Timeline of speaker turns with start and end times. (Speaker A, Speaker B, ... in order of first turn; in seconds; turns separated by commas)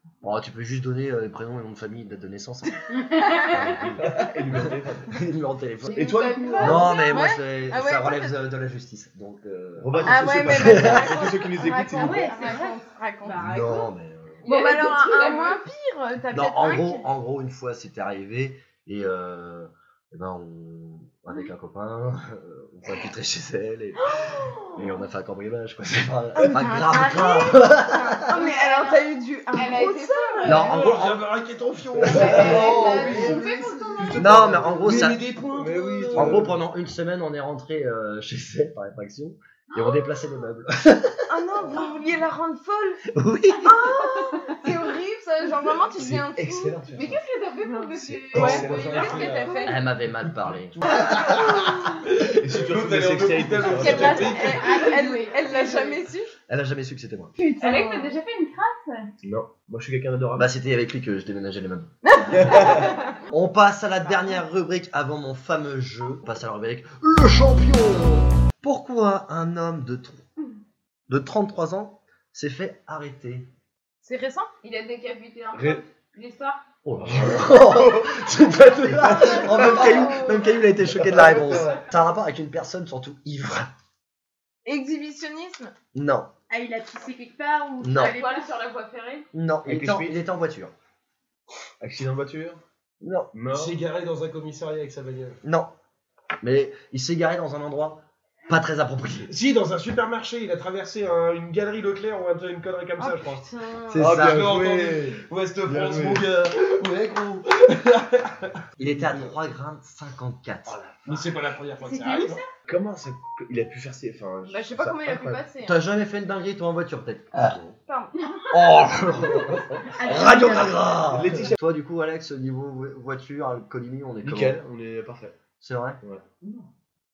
Speaker A: 0.2-2.9, Speaker B: 3.0-3.5, Speaker C: 3.2-3.7, Speaker A: 3.5-4.6, Speaker D: 4.0-5.2, Speaker A: 5.1-11.3, Speaker E: 5.9-7.2, Speaker D: 5.9-6.9, Speaker B: 6.1-6.7, Speaker C: 6.7-8.3, Speaker D: 9.8-12.3, Speaker C: 10.0-13.8, Speaker B: 11.9-13.6, Speaker E: 13.3-13.7, Speaker A: 13.3-14.4, Speaker E: 14.4-15.6, Speaker C: 14.4-17.0, Speaker A: 16.3-28.3, Speaker C: 24.0-24.8, Speaker C: 26.3-30.6, Speaker B: 28.3-30.7, Speaker E: 29.6-30.6, Speaker A: 30.4-31.3, Speaker F: 30.5-36.5, Speaker A: 32.0-32.5, Speaker D: 32.0-36.6, Speaker B: 32.1-34.1, Speaker E: 32.2-34.4, Speaker C: 32.4-33.6, Speaker A: 34.1-35.2, Speaker A: 36.1-41.3, Speaker C: 41.3-43.0, Speaker A: 43.1-43.9, Speaker C: 43.5-46.8, Speaker D: 46.0-47.2, Speaker E: 46.9-49.8, Speaker C: 47.6-49.9, Speaker D: 48.1-48.4, Speaker F: 48.3-49.7, Speaker A: 49.6-50.8, Speaker F: 50.2-54.6, Speaker C: 51.3-52.0, Speaker D: 52.3-54.4, Speaker C: 53.6-56.3, Speaker B: 54.3-56.0, Speaker E: 54.6-55.7, Speaker A: 56.5-57.3, Speaker C: 57.4-58.1, Speaker E: 57.6-59.1, Speaker D: 59.2-60.5, Speaker A: 60.4-70.2, Speaker C: 62.0-63.2, Speaker D: 62.3-63.0, Speaker A: 71.1-73.5, Speaker C: 74.0-74.5, Speaker E: 74.6-76.6, Speaker D: 75.5-75.8, Speaker A: 76.8-83.7, Speaker D: 77.0-80.2, Speaker C: 79.1-80.5, Speaker D: 80.8-81.9, Speaker C: 84.7-85.7, Speaker A: 85.9-86.3, Speaker B: 86.5-88.5, Speaker A: 87.8-88.2, Speaker E: 87.9-89.3, Speaker A: 89.3-90.7, Speaker D: 89.6-90.2, Speaker D: 91.8-92.6, Speaker A: 93.0-93.3, Speaker D: 93.3-93.8, Speaker F: 93.5-95.4, Speaker A: 95.4-95.7, Speaker A: 96.4-99.3, Speaker F: 99.3-103.5, Speaker C: 103.0-104.1, Speaker A: 103.9-104.5, Speaker D: 104.0-106.3, Speaker F: 104.1-109.4, Speaker A: 108.8-110.8, Speaker F: 110.7-112.4, Speaker B: 111.8-112.4, Speaker D: 112.7-115.4, Speaker C: 114.5-115.8, Speaker A: 115.6-117.6, Speaker C: 117.8-118.4, Speaker A: 118.5-124.6, Speaker B: 119.8-121.0, Speaker D: 121.1-121.6, Speaker D: 124.2-125.4, Speaker A: 125.6-126.0, Speaker E: 126.4-126.7